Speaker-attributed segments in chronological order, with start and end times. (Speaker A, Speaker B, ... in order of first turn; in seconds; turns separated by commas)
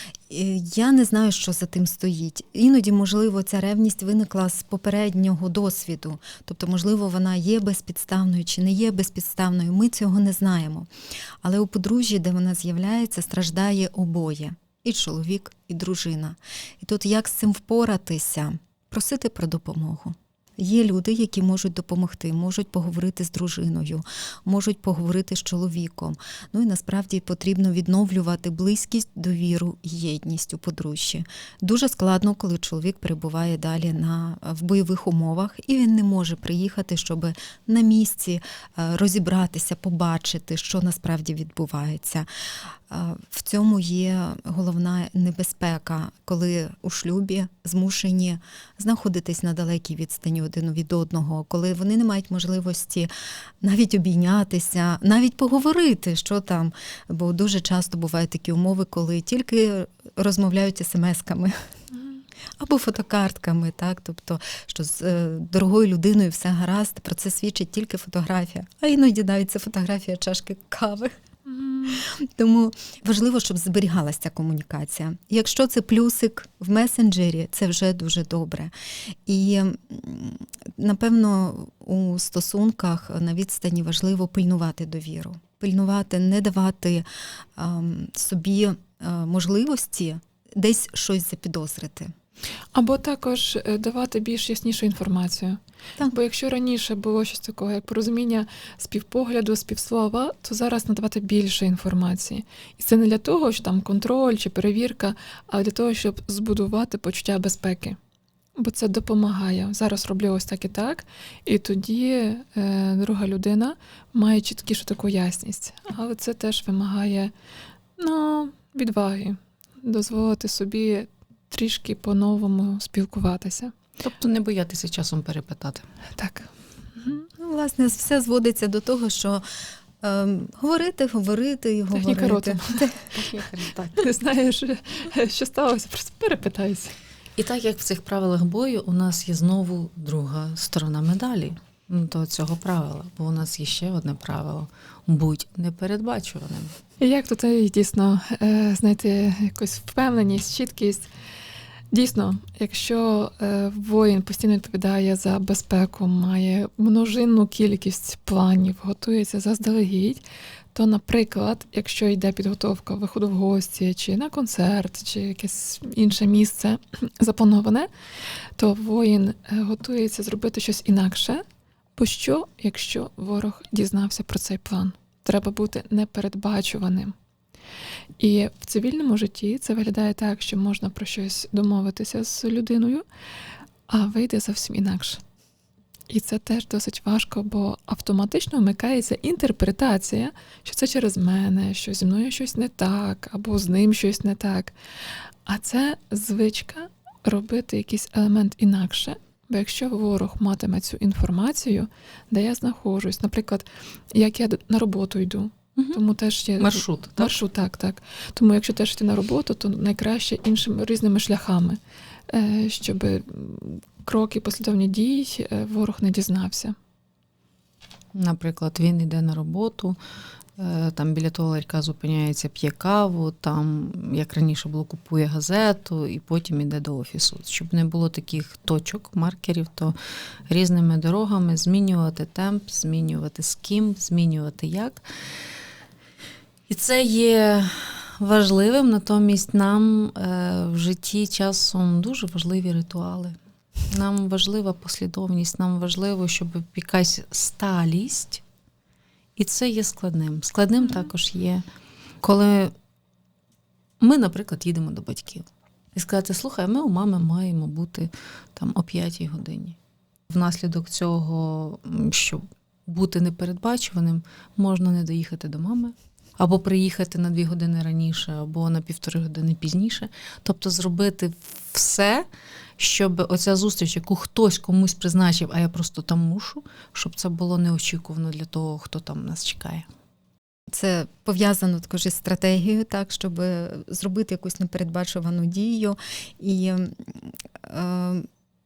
Speaker A: 0.3-10.9, Speaker A: 11.4-42.3, Speaker A: 42.9-53.1, Speaker A: 53.6-61.5, Speaker A: 62.6-71.1, Speaker B: 71.5-72.0, Speaker A: 71.9-78.7, Speaker A: 79.2-87.1, Speaker A: 87.6-92.1, Speaker B: 92.7-108.0, Speaker B: 108.6-117.3, Speaker B: 118.0-123.8, Speaker C: 124.0-125.8, Speaker B: 126.2-127.2, Speaker A: 127.4-129.4, Speaker A: 130.0-133.1, Speaker B: 131.9-132.9, Speaker C: 133.1-134.1, Speaker B: 134.0-136.9, Speaker C: 137.4-146.7, Speaker B: 147.0-151.1, Speaker B: 151.9-160.2, Speaker B: 160.8-167.9, Speaker B: 168.6-171.4, Speaker B: 171.9-177.2, Speaker B: 178.2-183.1, Speaker B: 183.9-185.2, Speaker B: 186.1-194.8, Speaker B: 195.4-216.8, Speaker C: 205.8-206.0, Speaker C: 206.6-207.3, Speaker C: 218.2-220.0, Speaker C: 220.6-229.9, Speaker C: 230.5-235.0, Speaker C: 236.7-243.3, Speaker C: 243.9-248.4, Speaker C: 249.4-251.6, Speaker C: 252.2-252.7, Speaker C: 254.0-259.8, Speaker C: 260.3-272.3, Speaker C: 272.8-279.9, Speaker A: 280.7-288.3